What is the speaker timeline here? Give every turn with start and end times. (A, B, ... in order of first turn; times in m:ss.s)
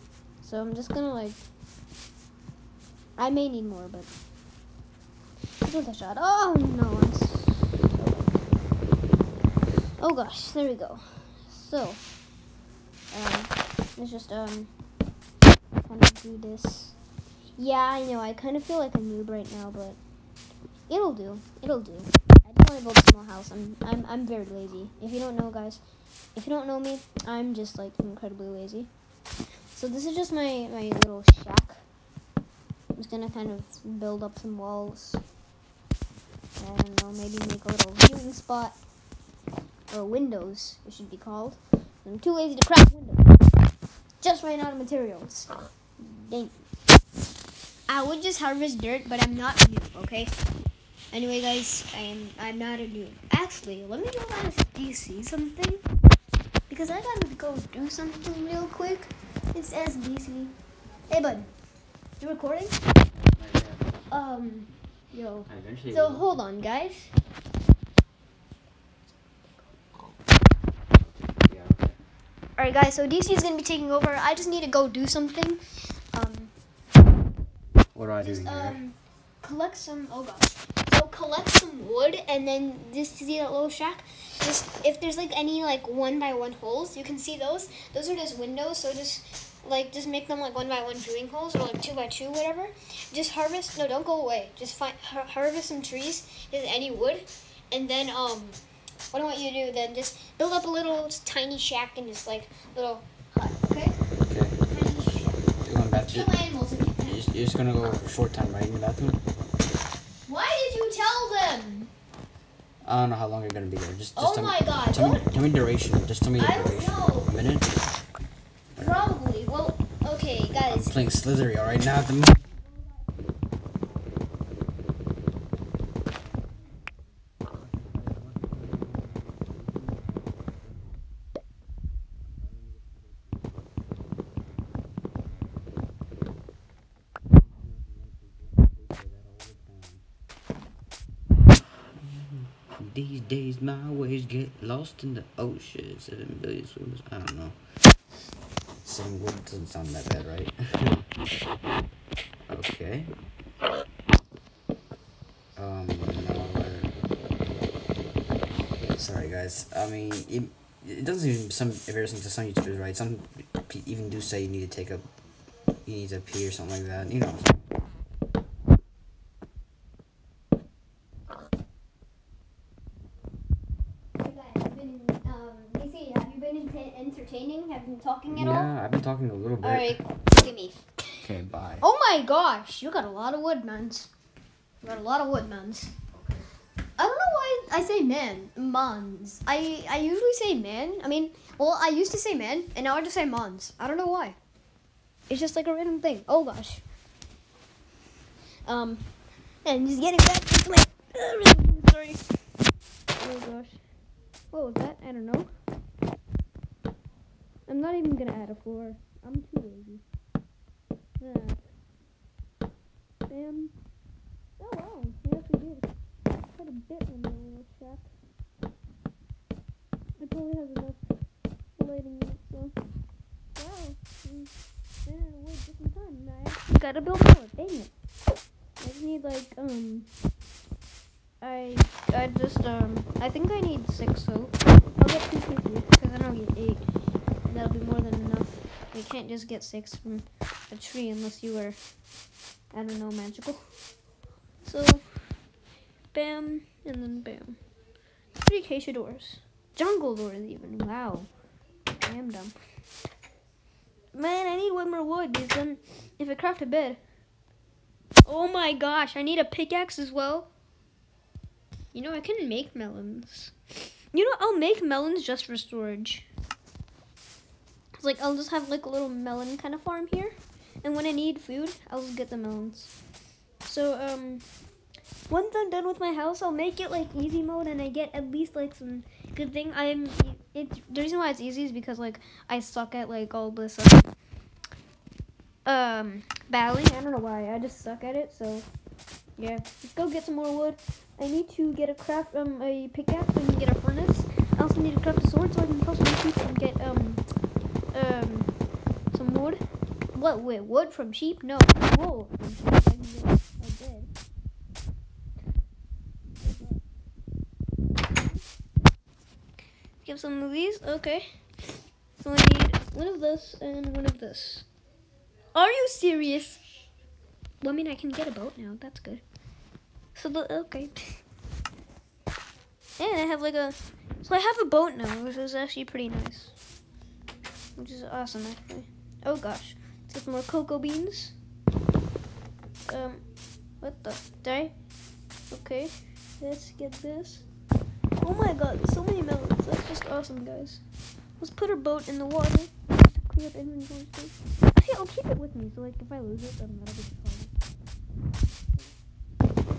0:00.4-0:01.4 A
0:03.2-0:04.1 A
0:05.6-0:08.4 A
0:10.0-0:12.0 A
0:13.1-0:14.7 A
0:15.8-0:17.0 A
0:17.6-0:20.0 A
0:20.9-0:25.8 A
0:26.4-0:28.9 A
0:29.7-0:31.8 A
0:33.0-0:35.2 A
0:36.6-0:38.8 A
0:39.9-0:43.3 A
0:44.2-0:46.6 A
0:47.9-0:50.3 A
0:51.1-0:55.8 A
0:56.7-1:00.6 A
1:01.1-1:01.5 A
1:02.2-1:02.8 A
1:03.1-1:04.0 B
1:04.1-1:07.1 A
1:05.5-1:06.3 B
1:10.9-1:12.0 B
1:12.6-1:15.6 A
1:16.1-1:16.5 A
1:18.0-1:18.8 B
1:18.2-1:38.6 A
1:39.1-1:44.0 A
1:44.3-1:44.6 B
1:44.7-1:45.4 A
1:45.6-1:46.4 B
1:46.0-1:47.2 A
1:47.0-1:49.2 B
1:50.3-1:51.9 A
1:52.8-1:57.8 B
1:54.2-1:55.3 A
1:56.4-1:57.3 A
1:58.8-2:01.0 A
2:00.7-2:02.4 B
2:04.4-2:05.1 B
2:07.4-2:11.0 B
2:12.2-2:14.8 B
2:17.3-2:20.0 B
2:21.8-2:27.6 B
2:28.8-2:31.1 B
2:32.5-2:33.1 B
2:35.5-2:37.0 B
2:38.9-2:45.1 B
2:45.8-2:47.6 B
2:54.2-2:58.7 A
2:58.3-3:00.0 B
2:59.6-3:00.9 A
3:01.2-3:01.8 B
3:01.8-3:04.1 A
3:04.8-3:05.9 A
3:07.0-3:14.4 A
3:15.3-3:16.8 A
3:18.7-3:19.1 A
3:19.6-3:22.2 A
3:23.2-3:23.8 A
3:24.5-3:25.5 A
3:27.7-3:30.0 A
3:31.2-3:31.6 A
3:33.3-3:33.7 A
3:34.6-3:35.9 A
3:36.5-3:38.1 A
3:40.2-3:41.0 A
3:41.8-3:42.8 A
3:43.6-3:44.5 A
3:45.0-3:47.9 A
3:48.8-3:50.1 A
3:51.4-3:56.8 A
3:57.4-4:01.8 A
4:02.7-4:03.6 A
4:04.6-4:05.1 A
4:06.1-4:07.6 A
4:08.4-4:11.3 A
4:12.0-4:12.5 A
4:14.1-4:17.0 A
4:18.2-4:20.5 A
4:21.9-4:23.6 A
4:24.1-4:26.3 A
4:28.0-4:32.9 A
4:33.6-4:34.4 A
4:35.3-4:44.1 A
4:45.7-4:48.7 A
4:49.4-4:57.2 A
4:57.9-4:58.5 A
4:59.1-4:59.6 A
5:00.1-5:04.1 A
5:06.4-5:06.8 A
5:08.1-5:08.4 A
5:10.0-5:11.2 A
5:12.2-5:14.7 A
5:15.6-5:16.6 A
5:17.6-5:19.2 A
5:20.2-5:21.2 A
5:23.0-5:26.6 A
5:27.8-5:31.4 A
5:32.9-5:33.2 A
5:33.8-5:34.7 A
5:35.5-5:37.4 A
5:38.2-5:40.8 A
5:41.4-5:47.5 A